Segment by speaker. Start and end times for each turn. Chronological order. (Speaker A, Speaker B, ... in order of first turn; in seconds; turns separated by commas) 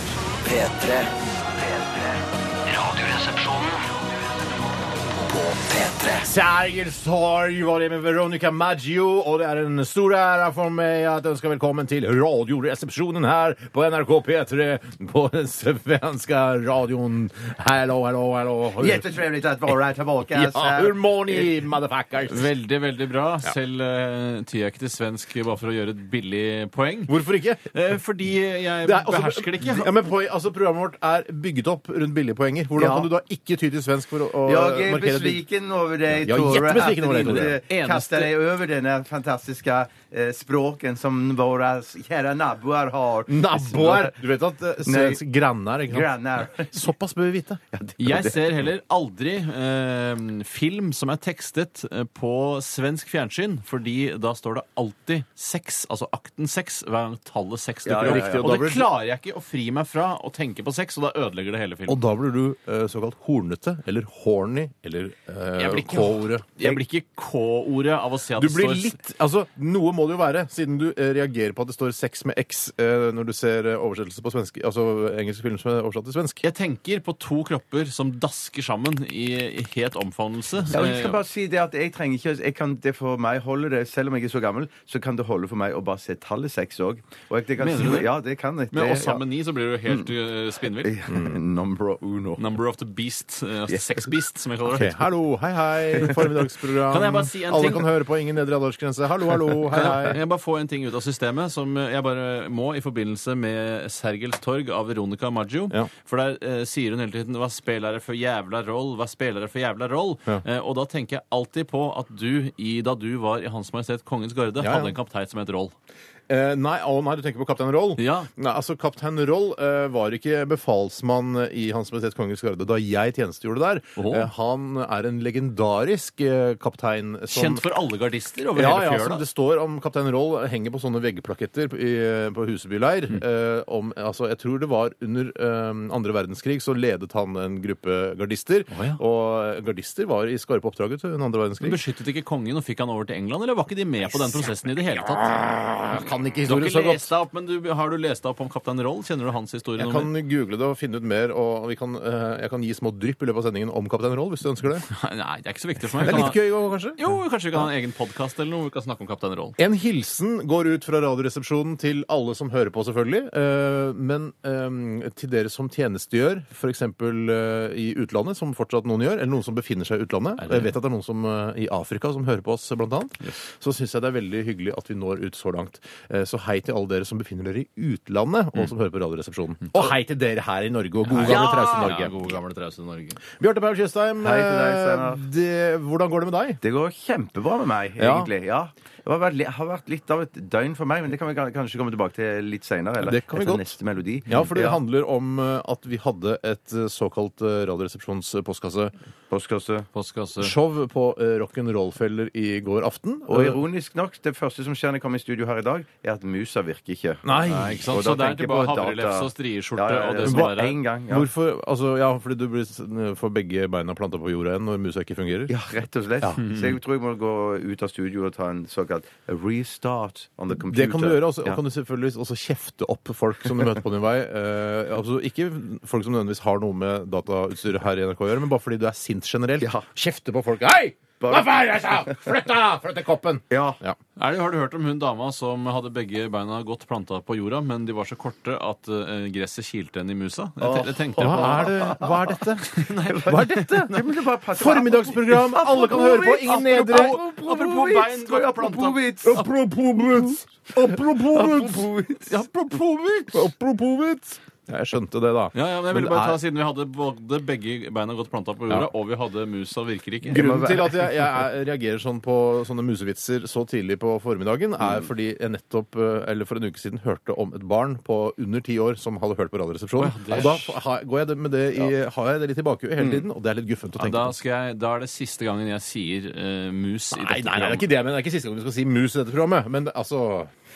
Speaker A: 0.4-3.8, Speaker A: 5.2-6.3, Speaker B: 6.2-19.1, Speaker C: 18.8-21.5, Speaker B: 20.3-22.5, Speaker D: 22.3-27.2, Speaker B: 27.1-27.7, Speaker D: 27.7-29.9, Speaker B: 28.8-35.4, Speaker C: 32.8-33.1, Speaker C: 34.4-44.2, Speaker B: 36.1-37.6, Speaker D: 36.5-38.3, Speaker B: 43.3-47.6, Speaker C: 44.8-45.2, Speaker C: 45.9-46.9, Speaker C: 47.7-48.5, Speaker D: 48.0-62.0, Speaker C: 57.8-58.6, Speaker B: 58.0-58.9, Speaker B: 61.9-66.4, Speaker D: 65.6-69.0, Speaker B: 68.4-76.4, Speaker D: 76.4-81.2, Speaker C: 80.7-89.2, Speaker D: 87.6-88.1, Speaker D: 88.7-91.0, Speaker C: 90.8-92.4, Speaker D: 92.4-95.1, Speaker B: 94.7-100.2, Speaker D: 96.1-97.9, Speaker D: 99.7-115.7, Speaker B: 114.6-114.9, Speaker B: 116.3-127.6, Speaker D: 118.0-118.3, Speaker D: 124.0-124.3, Speaker D: 127.3-129.2, Speaker B: 128.5-141.8, Speaker D: 138.7-139.0, Speaker D: 141.6-145.3, Speaker B: 145.2-147.1, Speaker D: 146.4-150.1, Speaker B: 149.8-154.9, Speaker D: 154.9-159.6, Speaker B: 156.0-157.0, Speaker B: 159.6-182.1, Speaker D: 170.4-170.7, Speaker D: 181.1-183.2, Speaker B: 183.3-186.6, Speaker C: 184.2-185.2, Speaker C: 186.6-194.8, Speaker B: 188.0-188.3, Speaker B: 193.0-193.7, Speaker B: 194.3-198.9, Speaker C: 199.3-199.9, Speaker D: 199.9-200.5, Speaker B: 200.4-203.6, Speaker C: 203.3-211.3, Speaker B: 207.2-207.9, Speaker D: 207.4-210.8, Speaker B: 210.2-210.6, Speaker B: 211.1-215.5, Speaker C: 215.5-221.6, Speaker B: 220.6-234.0, Speaker C: 229.6-229.8, Speaker C: 231.2-232.2, Speaker C: 233.5-233.8, Speaker D: 234.2-241.8, Speaker C: 240.6-242.4, Speaker B: 241.2-247.2, Speaker D: 242.7-243.9, Speaker C: 243.0-249.4, Speaker D: 246.5-249.4, Speaker B: 249.2-251.9, Speaker C: 250.8-252.3, Speaker D: 252.3-253.5, Speaker B: 253.3-256.4, Speaker D: 255.5-260.5, Speaker B: 260.3-274.3, Speaker C: 260.3-261.1, Speaker D: 270.0-270.7, Speaker D: 274.0-277.9, Speaker B: 277.1-280.5